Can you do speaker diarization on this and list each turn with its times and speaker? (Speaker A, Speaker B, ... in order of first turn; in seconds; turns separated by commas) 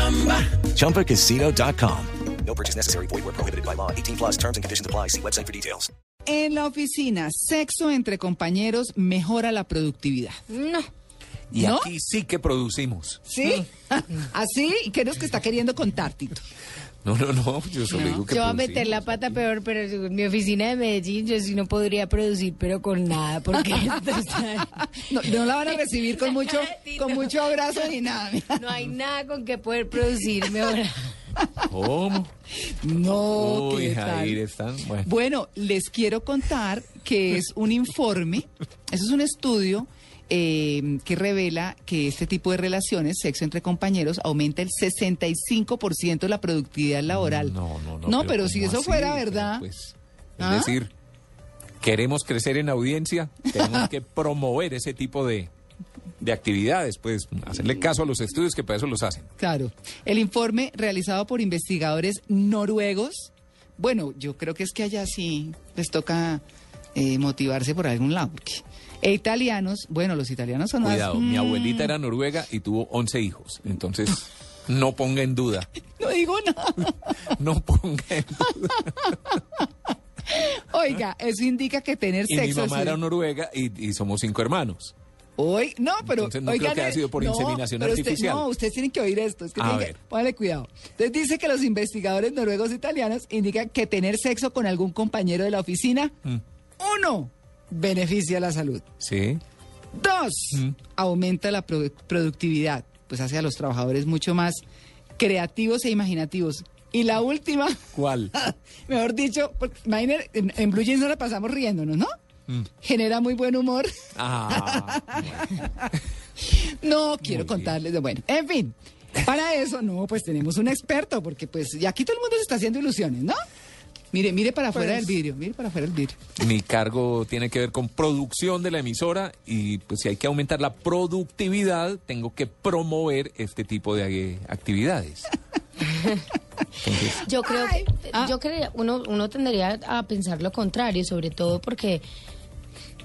Speaker A: 0.3-5.9, Speaker B: 6.3-10.4, Speaker C: 10.5-10.9, Speaker D: 11.5-13.2, Speaker B: 11.5-11.9, Speaker B: 13.2-16.4, Speaker D: 17.0-19.1, Speaker C: 17.9-25.4, Speaker B: 25.1-28.7, Speaker C: 26.0-27.4, Speaker C: 28.5-31.1, Speaker D: 31.7-32.3, Speaker B: 32.6-34.4, Speaker D: 33.2-35.1, Speaker B: 35.0-49.6, Speaker D: 47.1-50.9, Speaker B: 50.4-50.8, Speaker D: 51.8-55.5, Speaker D: 56.2-59.3, Speaker B: 59.4-66.4, Speaker B: 66.9-71.9, Speaker D: 70.8-75.7, Speaker B: 76.0-77.1, Speaker D: 77.3-79.3, Speaker B: 80.2-83.0, Speaker D: 82.3-84.9, Speaker B: 85.4-96.1, Speaker D: 86.1-88.4, Speaker D: 89.6-89.9, Speaker B: 96.8-98.8, Speaker D: 99.0-99.4, Speaker B: 99.9-104.6, Speaker B: 105.2-107.8, Speaker D: 107.9-108.3, Speaker B: 108.3-112.1, Speaker B: 112.8-113.9, Speaker D: 114.2-115.6, Speaker B: 114.5-115.7, Speaker B: 116.4-123.4, Speaker D: 117.2-117.7, Speaker B: 124.1-126.2, Speaker D: 126.4-135.4, Speaker C: 135.8-136.2, Speaker D: 136.8-137.2, Speaker C: 137.1-142.0, Speaker B: 137.4-138.3